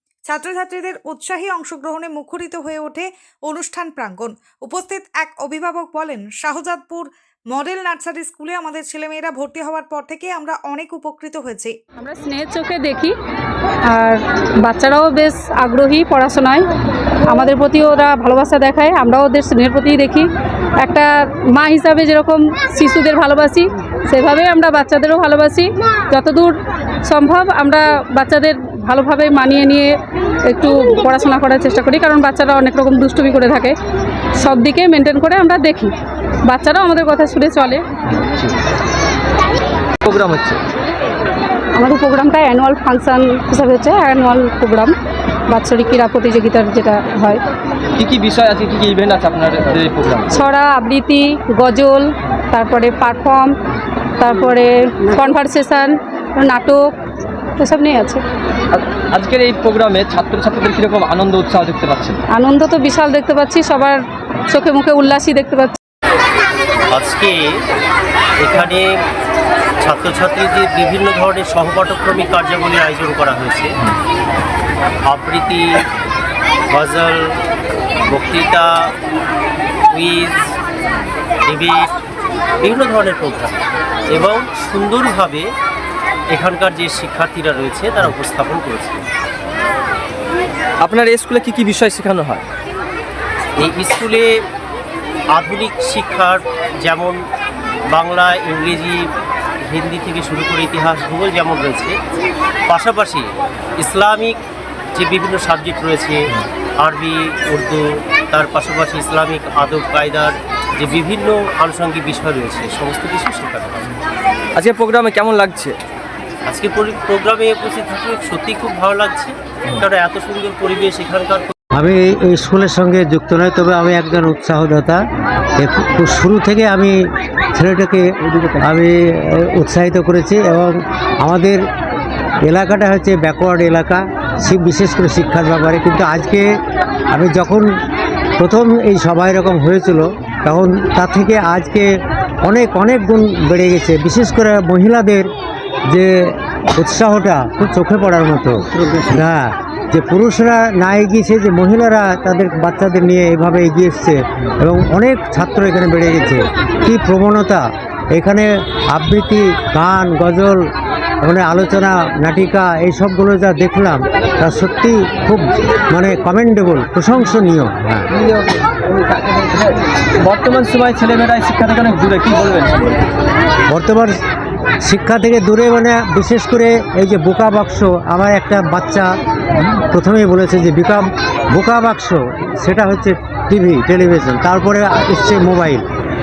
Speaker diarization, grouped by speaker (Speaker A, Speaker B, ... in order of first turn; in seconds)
Speaker A: 0.3-11.8
Speaker B: 12.0-13.1, 13.9-16.6, 17.3-20.3, 20.8-29.9, 30.5-33.7, 34.4-35.9, 36.4-37.8, 41.8-44.9, 45.5-47.4, 50.3-53.5, 54.2-56.9, 57.6-58.2, 62.3-65.8
Speaker C: 38.1-38.6, 40.0-40.6, 48.0-50.4, 58.7-62.2, 90.8-92.4, 114.5-115.8, 168.2-173.0
Speaker D: 66.9-67.6, 68.4-68.9, 69.8-73.7, 75.1-75.8, 76.7-77.4, 78.1-78.9, 79.9-80.5, 81.4-81.9, 82.6-85.5, 86.3-89.1, 93.6-94.3, 95.3-97.2, 97.9-99.1, 99.6-102.0, 102.7-104.4, 104.9-113.9, 116.5-121.5
Speaker E: 121.7-125.0, 125.6-127.0, 127.5-131.6, 132.4-136.5, 137.1-137.7, 138.4-145.3, 145.9-160.7, 161.2-168.1, 173.7-174.2, 174.8-179.1, 179.9-185.8